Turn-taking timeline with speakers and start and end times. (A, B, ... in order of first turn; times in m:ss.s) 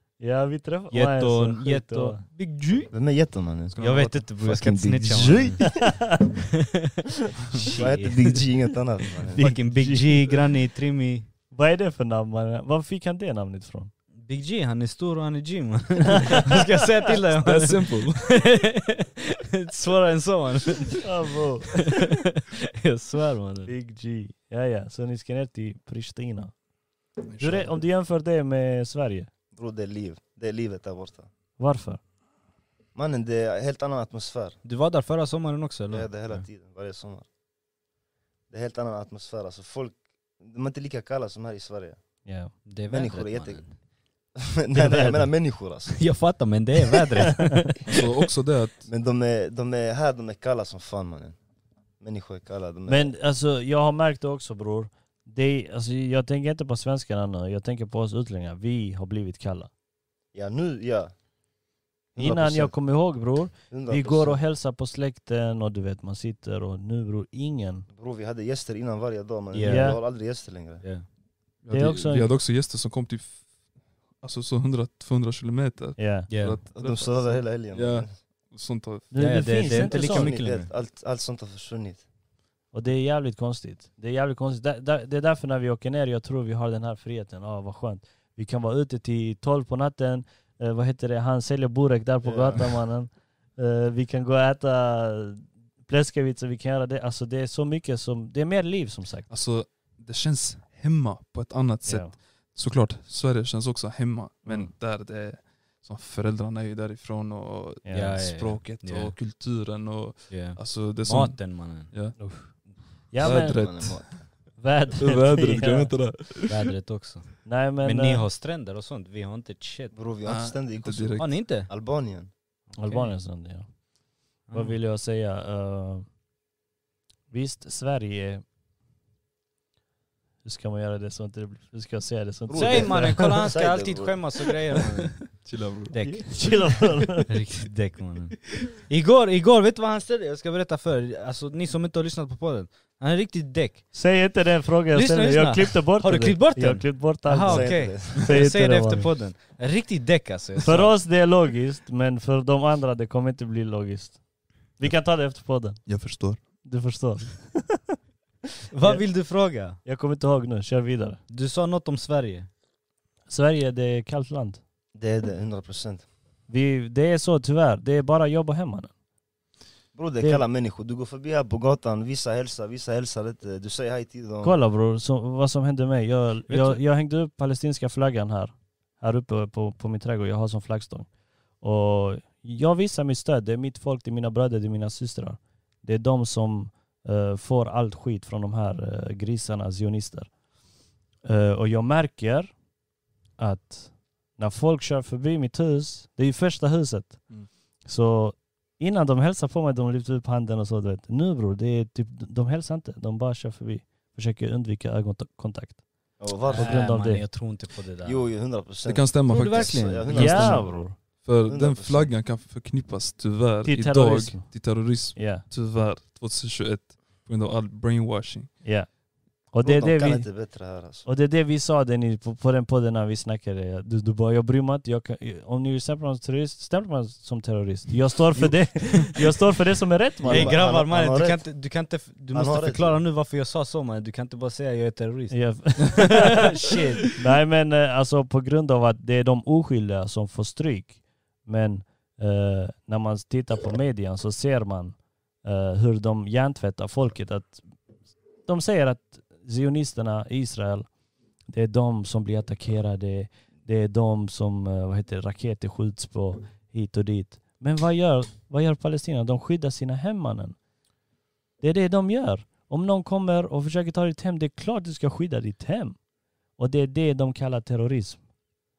0:00.2-0:02.2 A
0:00.9-0:02.9 B
0:02.9-0:05.8 C
0:03.7-0:04.2 D
0:03.8-0:05.9 B
0:05.2-0:06.3 A
0:07.5-0:08.4 B
0:07.8-0:09.6 C
0:09.3-0:11.3 B
0:09.4-0:10.4 A
0:11.5-0:13.9 A
0:14.2-0:21.1 B
0:17.4-0:18.4 D
0:21.0-0:21.9 A
0:21.8-0:23.7 B
0:23.7-0:26.5 A
0:27.3-0:27.8 D
0:27.4-0:29.3 A
0:29.5-0:31.3 C
0:31.6-0:32.0 A
0:33.0-0:34.6 C
0:34.6-0:36.4 B
0:35.9-0:37.3 C
0:38.5-0:42.0 C
0:42.2-0:42.5 A
0:42.6-0:43.7 B
0:42.9-0:43.8 C
0:44.4-0:46.1 C
0:44.7-0:45.3 A
0:45.9-0:47.8 B
0:47.9-0:48.9 D
0:48.9-0:51.4 C
0:52.0-0:53.1 C
0:52.9-0:59.7 A
1:00.3-1:01.2 C
1:02.2-1:02.8 C
1:02.2-1:07.9 A
1:03.7-1:04.4 C
1:08.0-1:10.8 C
1:09.5-1:10.1 B
1:09.6-1:10.0 A
1:11.6-1:13.5 D
1:11.7-1:12.3 A
1:14.2-1:19.1 D
1:16.0-1:16.3 A
1:16.3-1:16.6 B
1:16.7-1:18.2 C
1:19.1-1:20.4 A
1:19.2-1:20.7 B
1:19.7-1:22.0 C
1:22.7-1:39.3 A
1:32.2-1:32.8 C
1:39.3-1:52.2 D
1:41.8-1:42.1 A
1:44.5-1:44.7 A
1:47.8-1:48.2 A
1:47.9-1:49.2 B
1:50.3-1:51.9 B
1:52.2-1:52.6 A
1:53.1-1:54.0 A
1:53.2-1:54.3 C
1:53.2-1:54.2 D
1:54.6-1:55.9 A
1:55.0-1:56.6 D
1:56.5-1:59.9 B
1:57.4-1:58.3 A
1:59.9-2:02.3 C
2:00.2-2:01.3 D
2:01.2-2:01.7 B
2:02.8-2:03.1 B
2:02.8-2:03.7 A
2:04.4-2:06.1 A
2:04.5-2:04.8 B
2:07.3-2:08.4 A
2:10.4-2:13.3 A
2:12.5-2:14.2 C
2:12.5-2:15.4 B
2:15.2-2:16.0 D
2:15.9-2:16.4 B
2:16.0-2:17.3 A
2:17.3-2:23.9 B
2:23.9-2:29.1 A
2:24.9-2:31.0 B
2:27.4-2:28.2 C
2:30.6-2:37.8 A
2:35.8-2:36.4 D
2:38.7-2:39.8 B
2:38.8-2:41.2 A
2:41.3-2:42.5 B
2:43.3-2:44.6 A
2:45.0-2:46.0 C
2:46.5-2:48.9 A
2:49.9-2:54.6 C
2:54.4-3:01.1 A
2:56.5-2:56.8 B
3:01.6-3:10.3 A
3:11.2-3:12.5 A
3:13.4-3:25.8 A
3:26.2-3:26.8 C
3:26.5-3:27.2 A
3:26.5-3:28.3 B
3:28.0-3:30.9 C
3:28.8-3:38.5 D
3:29.3-3:30.7 B
3:30.1-3:31.0 A
3:31.4-3:32.1 C
3:33.6-3:35.4 A
3:38.6-3:40.3 A
3:39.6-3:41.1 C
3:41.0-3:50.6 A
3:48.4-3:49.1 C
3:50.2-3:51.6 C
3:50.2-3:57.1 B
3:52.3-3:53.0 C
3:55.3-3:56.4 A
3:57.1-4:07.7 A
4:08.4-4:10.9 A
4:11.5-4:20.6 A
4:21.6-4:26.0 A
4:26.6-4:28.2 A